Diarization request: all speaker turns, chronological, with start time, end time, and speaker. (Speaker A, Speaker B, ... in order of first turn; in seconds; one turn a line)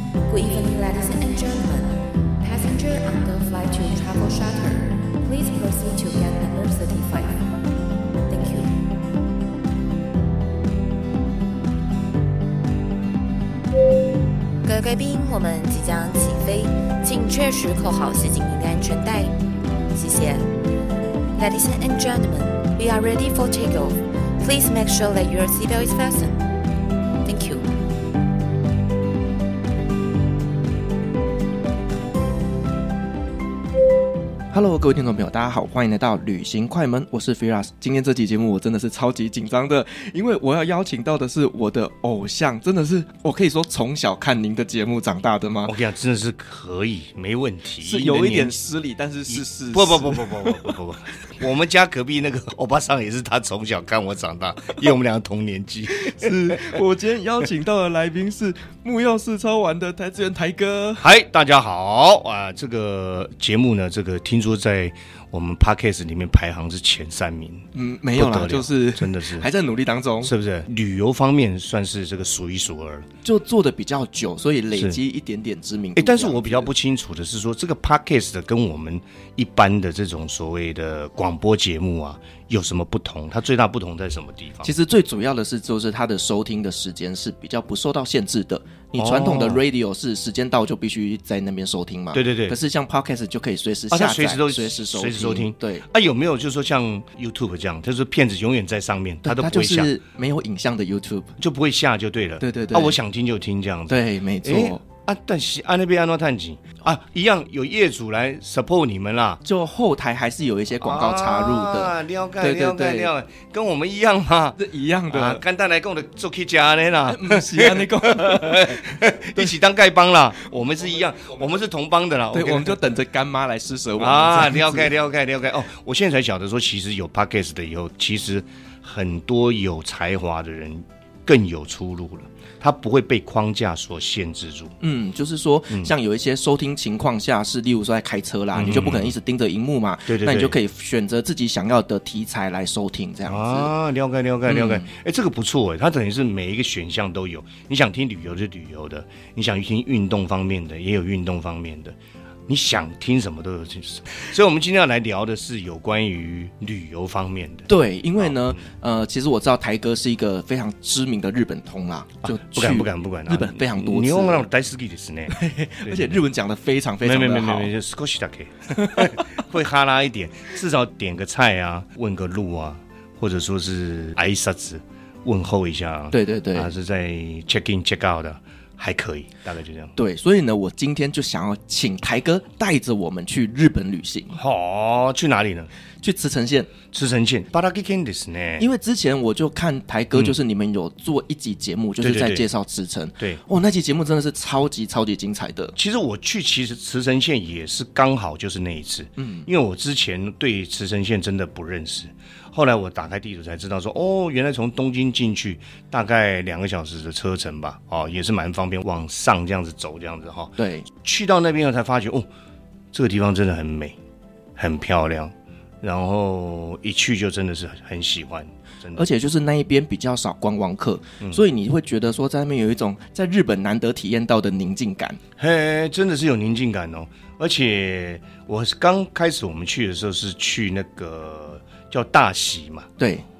Speaker A: 0.3-7.4
Speaker A: 8.3-8.8
Speaker A: 14.6-19.3
Speaker A: 19.9-20.4
Speaker A: 21.4-26.4
Speaker A: 27.2-27.7
Speaker B: 34.5-45.8
Speaker C: 45.6-48.6
Speaker B: 47.8-50.7
Speaker C: 49.3-56.8
Speaker B: 55.9-61.1
Speaker C: 61.0-69.5
Speaker B: 67.7-70.3
Speaker C: 70.2-73.1
Speaker B: 73.2-76.7
Speaker C: 74.7-75.0
Speaker C: 76.0-84.7
Speaker B: 84.6-95.8
Speaker C: 89.0-89.6
Speaker C: 92.1-92.6
Speaker C: 93.9-100.0
Speaker B: 99.2-101.4
Speaker C: 101.4-109.4
Speaker B: 102.4-103.0
Speaker B: 103.9-104.8
Speaker B: 109.4-113.1
Speaker C: 110.7-122.8
Speaker B: 114.6-115.4
Speaker B: 117.0-119.5
Speaker B: 122.3-124.9
Speaker C: 124.0-134.7
Speaker B: 134.8-143.7
Speaker C: 138.5-139.2
Speaker C: 140.1-140.6
Speaker C: 143.2-151.9
Speaker B: 144.4-144.9
Speaker C: 152.5-158.6
Speaker B: 157.7-164.4
Speaker C: 162.2-166.2
Speaker B: 165.3-167.7
Speaker C: 167.0-179.9
Speaker B: 168.8-169.2
Speaker B: 176.1-176.7
Speaker B: 179.9-184.4
Speaker C: 184.3-185.7
Speaker B: 186.0-186.7
Speaker C: 186.9-188.6
Speaker B: 188.6-195.7
Speaker C: 192.0-192.5
Speaker C: 195.8-212.3
Speaker B: 199.2-199.5
Speaker B: 210.6-210.9
Speaker C: 212.9-214.0
Speaker C: 214.6-219.0
Speaker B: 218.9-225.2
Speaker C: 225.4-232.9
Speaker B: 233.0-233.2